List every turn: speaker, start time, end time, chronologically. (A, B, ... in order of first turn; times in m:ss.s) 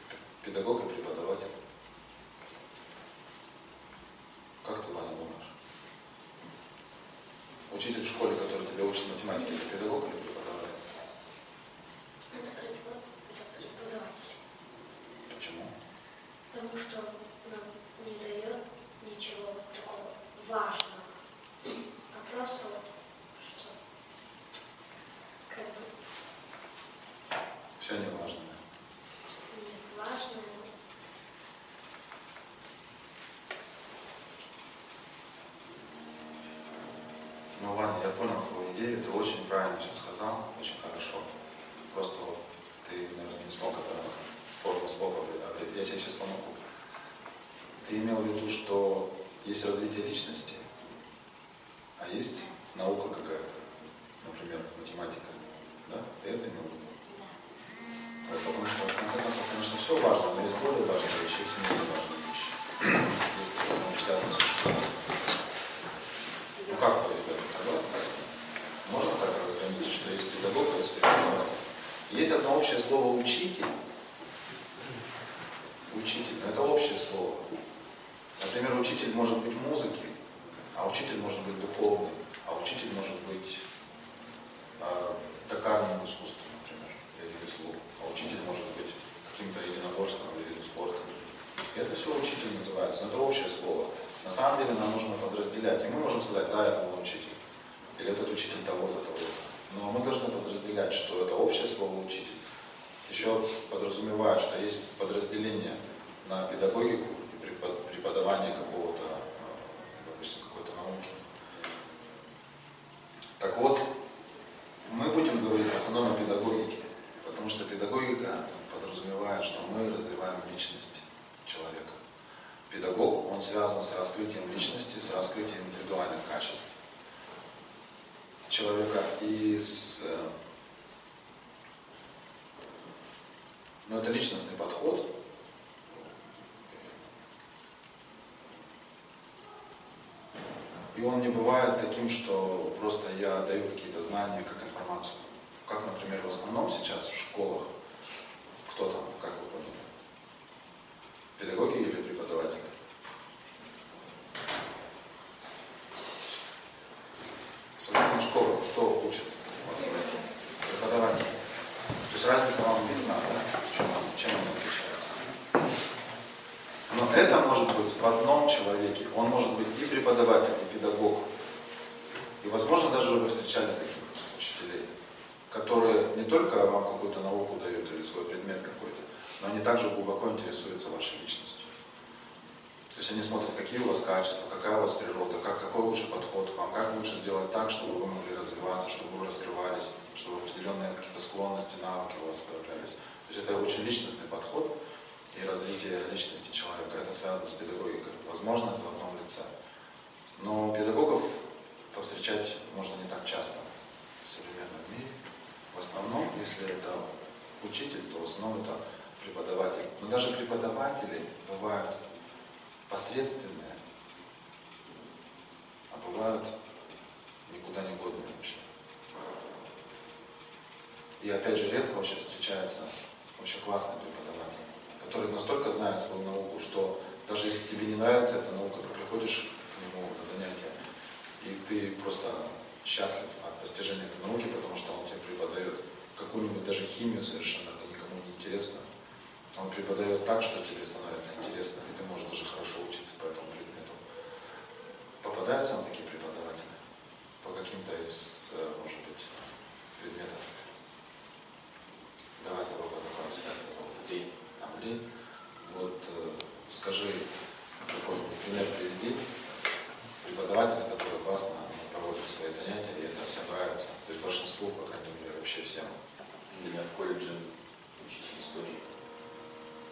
0:00.4-0:01.5 A
0:04.6-0:05.5 A
0:07.7-0:10.8 A
0:12.3-0:14.4 B
0:15.3-0:15.7 A
0:16.5-0:21.1 B
0:22.1-0:22.8 B
0:23.4-0:23.8 B
0:25.5-0:25.9 B
0:27.8-0:28.6 A
0:29.5-0:30.7 B
0:37.5-0:41.3 A
0:41.9-0:46.6 A
0:47.8-0:50.6 A
0:52.0-0:53.7 A
0:54.2-0:56.9 A
0:58.2-1:04.9 A
1:06.6-1:08.2 A
1:08.8-1:13.7 A
1:15.9-1:17.4 A
1:18.4-1:20.1 A
1:20.7-1:23.6 A
1:24.8-1:37.4 A
1:37.9-1:42.4 A
1:43.0-1:51.2 A
1:53.4-1:53.9 A
1:54.8-2:02.0 A
2:02.7-2:06.7 A
2:08.5-2:10.3 A
2:13.8-2:15.1 A
2:20.9-2:27.7 A
2:28.6-2:29.9 A
2:31.4-2:32.7 A
2:37.8-2:41.4 A
2:42.0-2:45.3 A
2:46.9-2:51.3 A
2:52.4-2:54.9 A
2:55.5-3:01.7 A
3:02.9-3:14.7 A
3:15.3-3:19.5 A
3:20.3-3:23.7 A
3:24.2-3:25.1 A
3:25.7-3:27.0 A
3:27.6-3:32.0 A
3:32.9-3:33.8 A
3:35.9-3:36.5 A
3:37.5-3:38.6 A
3:41.2-3:50.7 A
3:51.4-3:58.9 A
3:59.5-4:04.0 A
4:05.2-4:06.8 A
4:07.4-4:10.4 A
4:12.4-4:13.9 A
4:13.7-4:14.3 C
4:14.6-4:15.0 A
4:15.6-4:17.3 A
4:17.8-4:19.2 A
4:20.2-4:25.9 A
4:26.5-4:28.8 C